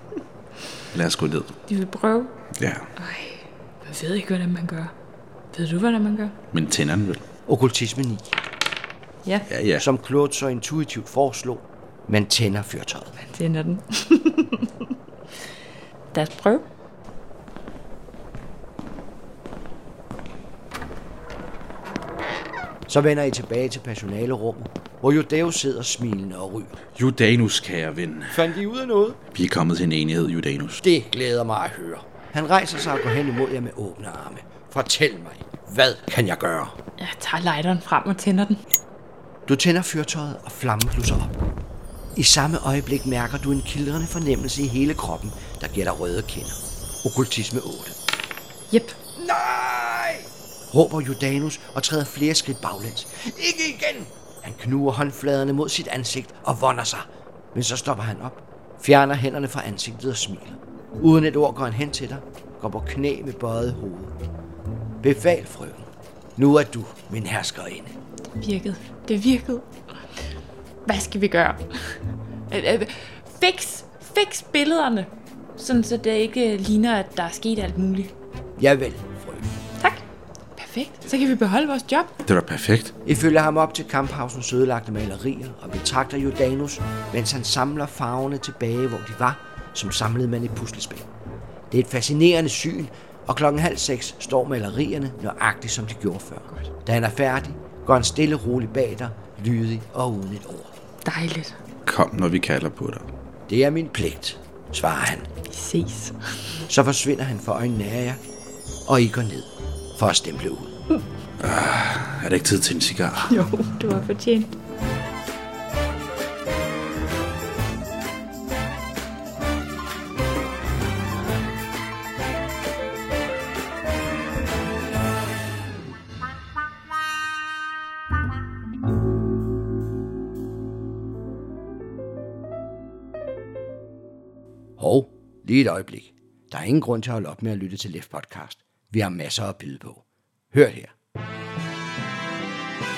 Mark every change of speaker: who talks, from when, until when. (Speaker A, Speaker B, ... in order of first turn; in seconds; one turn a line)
Speaker A: 0.9-1.6
Speaker B: 1.7-2.4
Speaker A: 2.5-2.9
Speaker B: 3.0-4.9
Speaker B: 5.5-6.4
Speaker A: 6.5-7.2
Speaker C: 7.5-8.4
Speaker A: 9.5-9.8
Speaker C: 9.8-13.1
Speaker B: 13.2-14.9
Speaker B: 16.1-16.6
Speaker C: 22.9-26.8
Speaker A: 26.9-28.5
Speaker C: 28.3-29.2
Speaker A: 29.3-30.8
Speaker C: 30.8-36.8
Speaker B: 37.0-38.6
Speaker C: 39.5-41.3
Speaker C: 42.1-48.0
Speaker B: 48.7-49.0
Speaker C: 49.1-64.1
Speaker C: 65.0-68.0
Speaker B: 68.4-69.7
Speaker B: 70.8-78.1
Speaker C: 78.6-79.5
Speaker B: 80.5-82.1
Speaker A: 82.2-82.9
Speaker C: 83.0-91.1
Speaker C: 91.7-100.7
Speaker B: 101.0-101.6
Speaker A: 101.8-103.1
Speaker C: 103.5-105.3
Speaker B: 105.5-106.6
Speaker C: 106.7-108.2
Speaker C: 108.9-110.7
Speaker A: 111.4-113.4
Speaker B: 113.3-114.5
Speaker C: 134.8-140.9